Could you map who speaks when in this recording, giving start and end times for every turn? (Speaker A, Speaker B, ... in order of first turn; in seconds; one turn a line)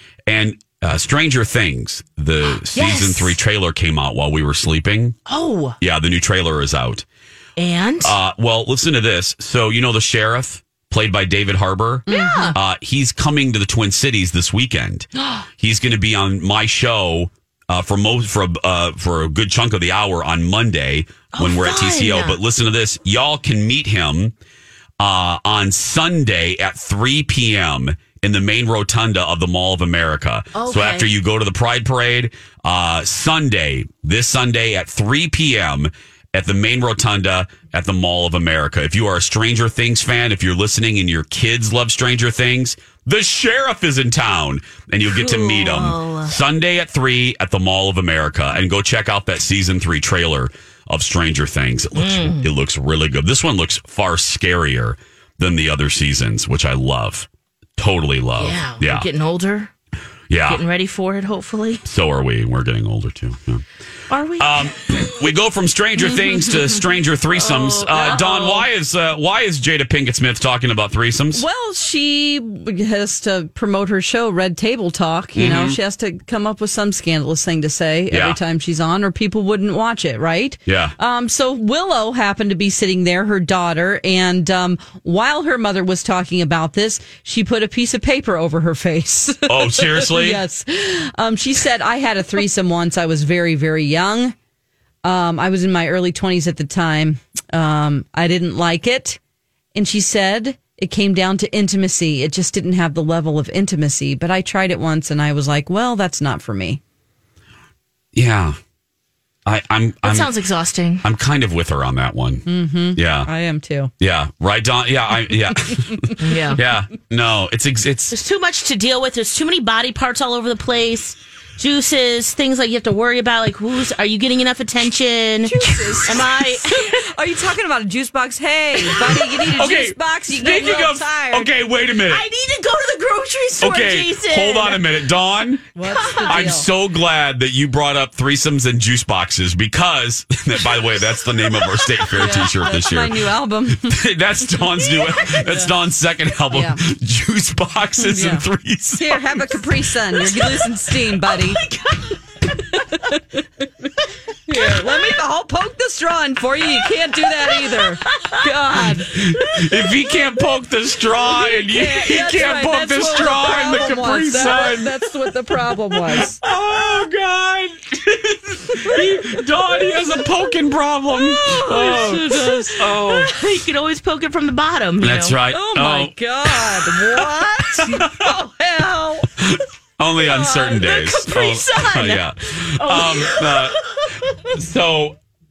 Speaker A: 0.3-5.2
Speaker B: 2.7-3.4
Speaker B: 5.3-5.8
Speaker A: 5.8-7.0
Speaker B: 7.6-8.2
Speaker A: 8.0-15.1
Speaker C: 12.1-12.6
Speaker B: 12.1-12.6
Speaker B: 15.2-15.4
Speaker A: 15.6-24.3
Speaker B: 21.3-22.4
Speaker A: 25.0-59.1
Speaker B: 30.5-31.1
Speaker B: 45.1-46.3
Speaker B: 52.0-52.5
Speaker B: 58.4-59.7
Speaker A: 60.3-60.6
Speaker B: 60.4-61.8
Speaker A: 61.8-63.6
Speaker B: 64.1-64.7
Speaker A: 64.4-71.5
Speaker B: 66.2-66.5
Speaker B: 67.4-68.6
Speaker C: 68.0-68.2
Speaker C: 71.3-94.3
Speaker A: 75.3-75.8
Speaker A: 78.1-78.4
Speaker A: 80.7-80.9
Speaker A: 89.5-90.4
Speaker C: 95.0-99.2
Speaker C: 99.7-106.8
Speaker A: 108.1-108.5
Speaker A: 109.5-110.3
Speaker B: 110.0-111.0
Speaker A: 111.0-113.3
Speaker C: 112.5-113.9
Speaker A: 114.0-118.1
Speaker B: 116.2-116.6
Speaker B: 118.1-127.1
Speaker C: 125.4-131.5
Speaker A: 128.9-132.2
Speaker B: 132.1-134.9
Speaker A: 133.6-135.7
Speaker C: 135.7-136.7
Speaker B: 135.8-136.6
Speaker A: 136.3-149.6
Speaker C: 142.2-144.0
Speaker C: 145.4-145.7
Speaker C: 146.5-146.8
Speaker C: 148.0-151.6
Speaker B: 151.3-152.2
Speaker C: 152.7-153.2
Speaker C: 154.5-159.1
Speaker B: 158.1-158.4
Speaker A: 159.1-165.5
Speaker B: 159.4-159.7
Speaker C: 161.5-166.4
Speaker A: 166.1-173.3
Speaker C: 168.8-169.5
Speaker C: 171.1-173.0
Speaker B: 173.0-175.4
Speaker A: 175.0-177.1
Speaker C: 175.5-179.3
Speaker A: 177.7-178.3
Speaker A: 179.4-183.8
Speaker B: 180.2-184.4
Speaker A: 184.4-185.2